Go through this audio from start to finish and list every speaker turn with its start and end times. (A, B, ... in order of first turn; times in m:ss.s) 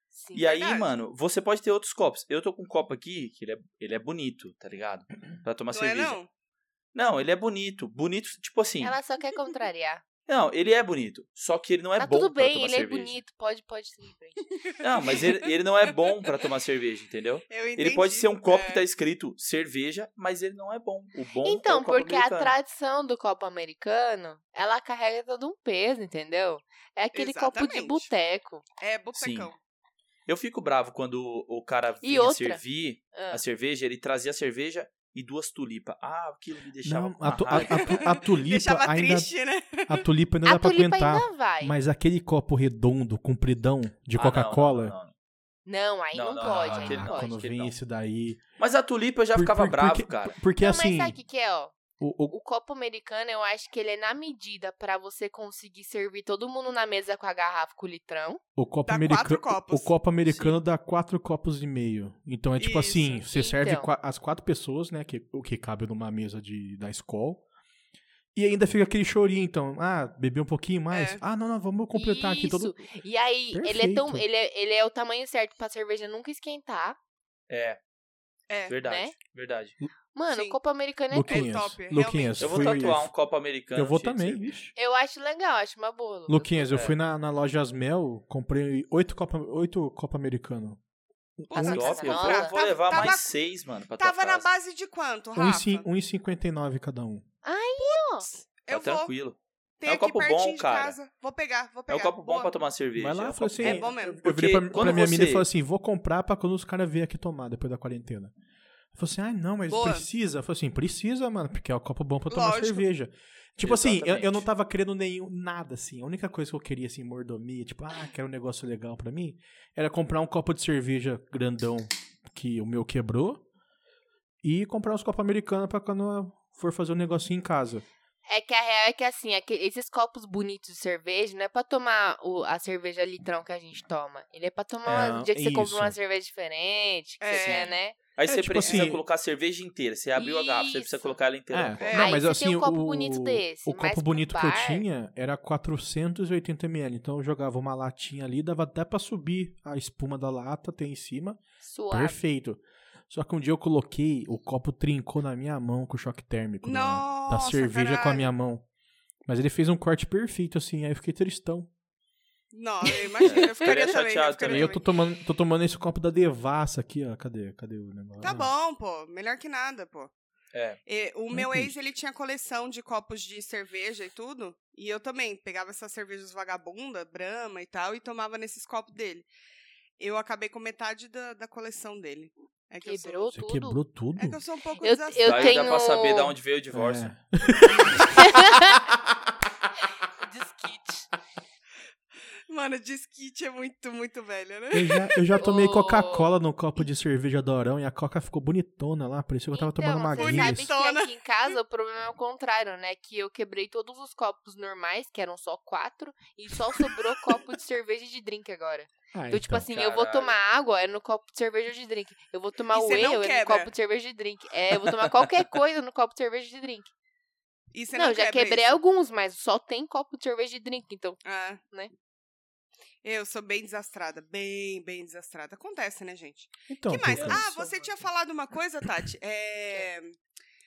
0:00.1-0:00.5 A
0:00.3-0:06.2 B
0:00.4-0:00.9 C
0:05.7-0:06.3 C
0:06.9-0:09.0 B
0:08.8-0:10.0 A
0:10.3-0:13.2 B
0:12.0-0:14.4 A
0:14.6-0:15.4 C
0:14.8-0:22.5 B
0:17.5-0:18.8 C
0:21.4-0:28.6 A
0:27.1-0:28.1 C
0:28.8-0:29.6 C
0:29.1-0:29.5 B
0:30.3-0:38.1 B
0:32.0-0:32.6 A
0:33.1-0:33.4 A
0:36.8-0:39.3 D
0:37.5-0:40.0 C
0:39.8-0:45.0 D
0:40.4-0:41.8 A
0:44.2-0:45.1 B
0:45.6-0:47.3 A
0:46.1-0:47.7 B
0:46.4-0:48.4 D
0:48.6-0:50.3 B
0:49.3-0:51.2 D
0:50.6-0:51.8 A
0:52.0-0:52.3 D
0:52.3-0:58.4 A
0:58.6-1:07.4 D
0:58.9-1:00.5 C
1:02.6-1:03.2 C
1:03.3-1:03.9 A
1:08.3-1:12.8 D
1:10.9-1:11.2 C
1:11.9-1:17.0 A
1:13.5-1:14.2 D
1:17.5-1:17.8 B
1:18.5-1:18.7 C
1:18.7-1:19.7 B
1:18.8-1:19.1 A
1:20.1-1:21.5 A
1:20.3-1:20.6 C
1:21.1-1:23.1 D
1:21.3-1:22.9 C
1:22.4-1:24.4 B
1:23.7-1:24.7 D
1:24.8-1:26.7 A
1:26.3-1:30.8 D
1:31.4-1:31.7 D
1:31.5-1:33.3 C
1:31.5-1:32.6 A
1:31.6-1:34.5 B
1:34.0-1:35.8 C
1:35.4-1:37.2 D
1:37.4-1:38.3 A
1:37.8-1:39.1 C
1:38.7-1:41.0 B
1:39.8-1:42.5 C
1:41.9-1:45.4 B
1:43.0-1:48.3 D
1:43.6-1:44.2 C
1:48.9-2:03.4 D
1:49.7-1:50.1 C
1:52.3-1:52.8 C
1:53.6-1:54.4 B
2:04.4-2:07.8 D
2:08.3-2:18.0 A
2:14.8-2:15.9 D
2:17.2-2:17.8 C
2:17.4-2:22.0 B
2:18.2-2:19.0 D
2:20.2-2:21.2 A
2:21.5-2:31.4 D
2:21.8-2:22.2 C
2:22.0-2:24.8 A
2:31.6-2:32.2 A
2:31.9-2:38.6 D
2:36.6-2:38.3 C
2:39.2-2:41.7 D
2:42.5-2:44.8 C
2:43.2-2:44.7 B
2:44.4-2:48.5 D
2:48.2-2:50.1 C
2:50.5-2:50.8 B
2:50.8-2:59.3 C
2:51.3-2:51.7 D
3:00.0-3:03.3 C
3:02.8-3:03.8 A
3:03.3-3:04.4 D
3:04.2-3:05.7 C
3:04.8-3:06.3 A
3:05.2-3:07.1 B
3:06.7-3:09.1 D
3:08.1-3:08.8 A
3:10.2-3:11.1 A
3:12.5-3:15.1 C
3:14.7-3:20.7 D
3:15.4-3:16.3 A
3:19.5-3:36.9 A
3:20.2-3:21.1 C
3:29.1-3:29.7 D
3:29.7-3:30.3 B
3:32.7-3:33.7 C
3:37.7-3:38.8 C
3:37.9-3:41.9 A
3:41.2-3:41.6 C
3:43.0-3:50.2 C
3:46.7-3:47.9 D